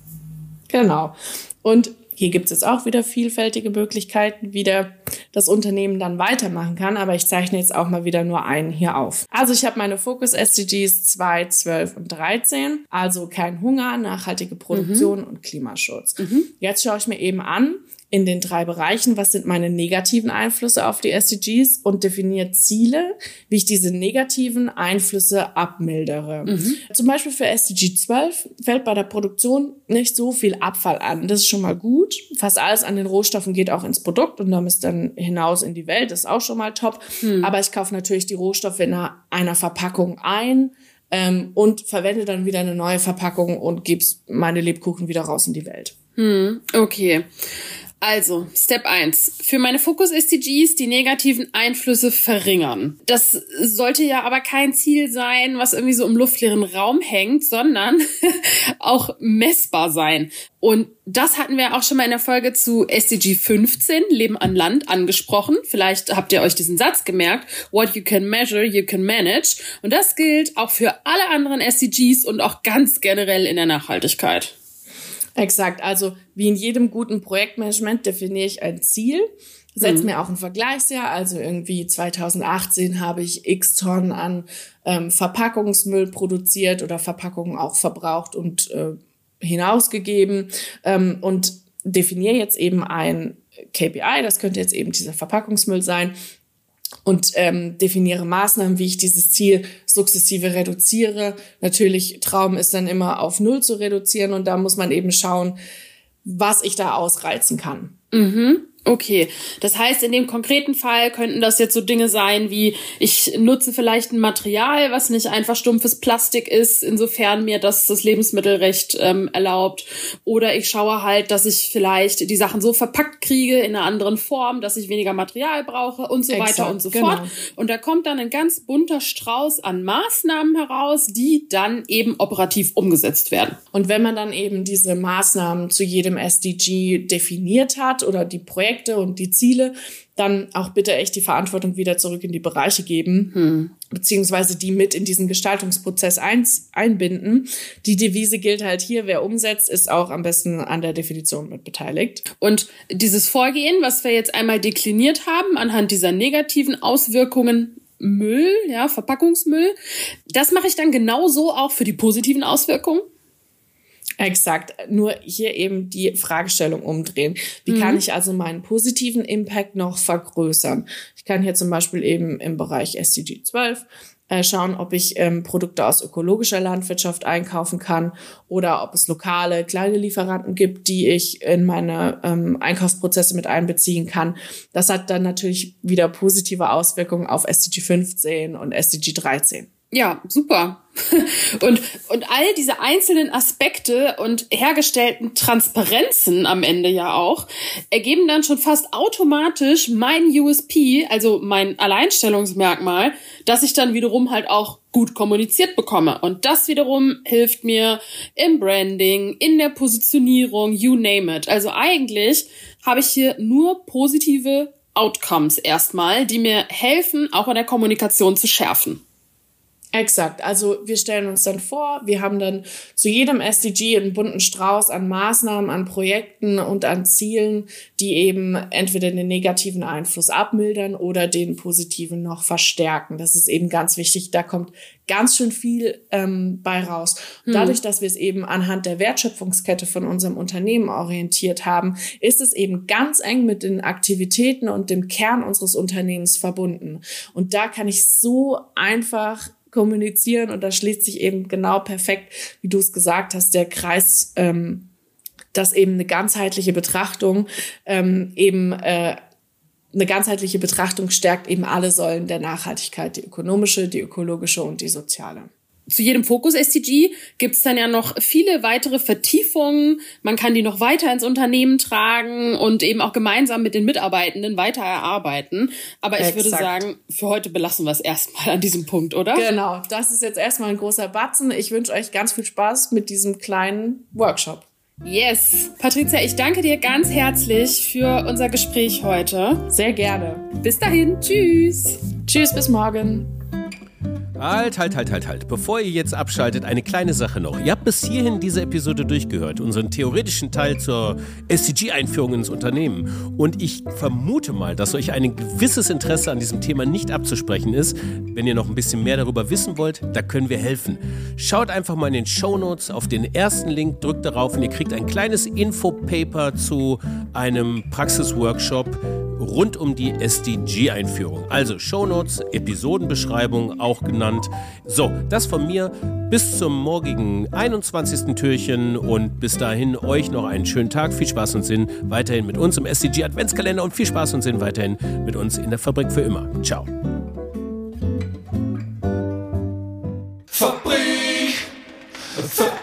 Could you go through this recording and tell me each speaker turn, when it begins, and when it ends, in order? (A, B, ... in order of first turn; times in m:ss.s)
0:00.7-0:45.9 A
0:14.7-0:15.1 B
0:16.2-0:16.5 B
0:26.4-0:26.8 B
0:37.2-0:37.5 B
0:46.2-0:47.2 B
0:48.0-1:14.5 B
1:15.4-1:36.1 A
1:19.8-1:20.1 B
1:37.0-1:45.6 A
1:46.2-1:47.9 A
1:48.1-2:13.6 B
2:06.3-2:07.3 A
2:13.7-2:23.3 A
2:23.3-2:23.7 B
2:23.9-2:32.2 A
2:32.4-2:39.7 B
2:40.3-2:43.0 B
2:44.2-3:09.7 A
2:47.7-2:48.0 B
3:09.9-3:39.0 B
3:39.9-4:14.9 A
3:57.5-3:57.8 B
4:15.5-4:19.2 A
4:19.9-4:25.5 A
4:25.9-4:39.5 B
4:36.2-4:36.8 A
4:39.3-4:44.6 A
4:45.0-4:49.6 B
4:49.7-4:50.4 A
4:50.6-4:52.0 B
4:52.2-4:53.3 A
4:54.4-5:36.9 C
5:40.7-5:41.5 C